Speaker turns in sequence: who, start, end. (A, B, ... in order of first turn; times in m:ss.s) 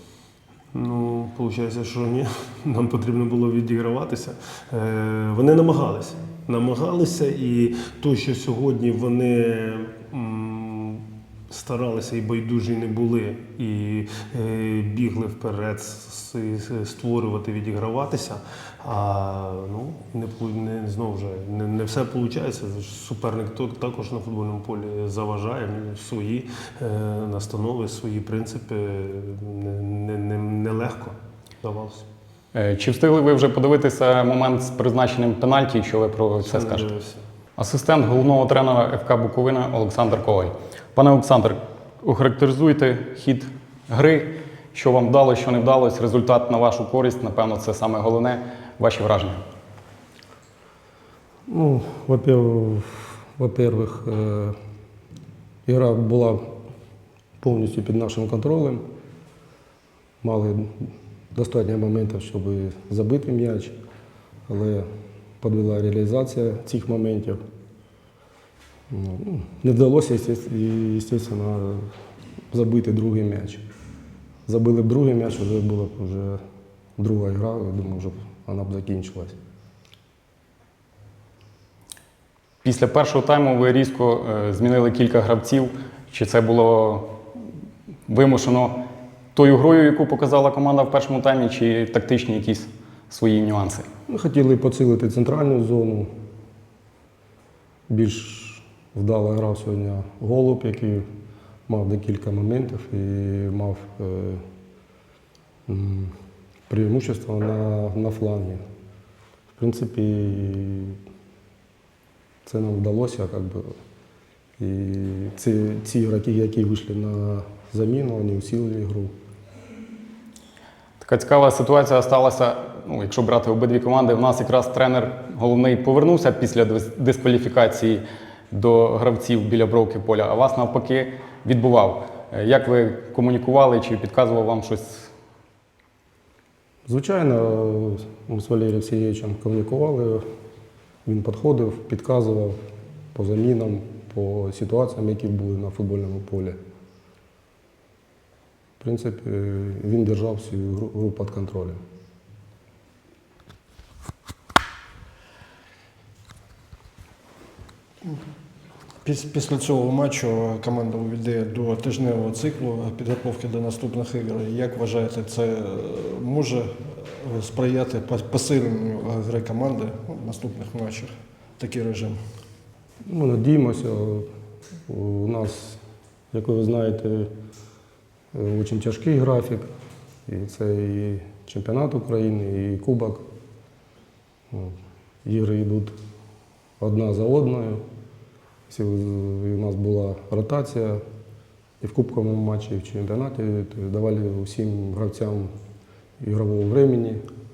0:00.7-0:32.0 A
0:32.5-0:36.8 B
0:36.4-0:37.2 A
0:37.6-0:49.4 B
0:51.5-0:54.5 C
0:55.6-0:56.4 C
0:57.4-0:58.8 C
1:00.2-1:03.7 C
1:04.5-1:04.8 C
1:05.4-1:07.4 C
1:08.9-1:11.9 C
1:12.5-1:13.6 C
1:14.4-1:16.4 C
1:17.0-1:19.3 C
1:22.6-1:27.1 B
1:28.1-1:28.8 B
1:29.3-1:33.9 B
1:34.1-1:36.1 C
1:37.9-1:41.0 C
1:41.7-1:44.4 C
1:45.7-1:46.1 C
1:46.7-1:48.6 C
1:49.5-1:51.0 C
1:52.4-1:53.7 C
1:54.6-1:59.1 C
2:01.0-2:15.1 B
2:16.9-2:20.2 C
2:21.0-2:22.6 C
2:23.1-2:26.6 C
2:28.8-2:31.8 C
2:39.0-2:52.2 D
2:53.1-2:54.2 C
2:54.9-2:55.8 C
2:56.3-2:57.3 C
2:58.3-2:59.7 C
3:00.3-3:03.2 C
3:04.5-3:05.9 C
3:06.8-3:07.8 C
3:08.7-3:11.0 C
3:11.8-3:15.5 C
3:16.2-3:17.2 C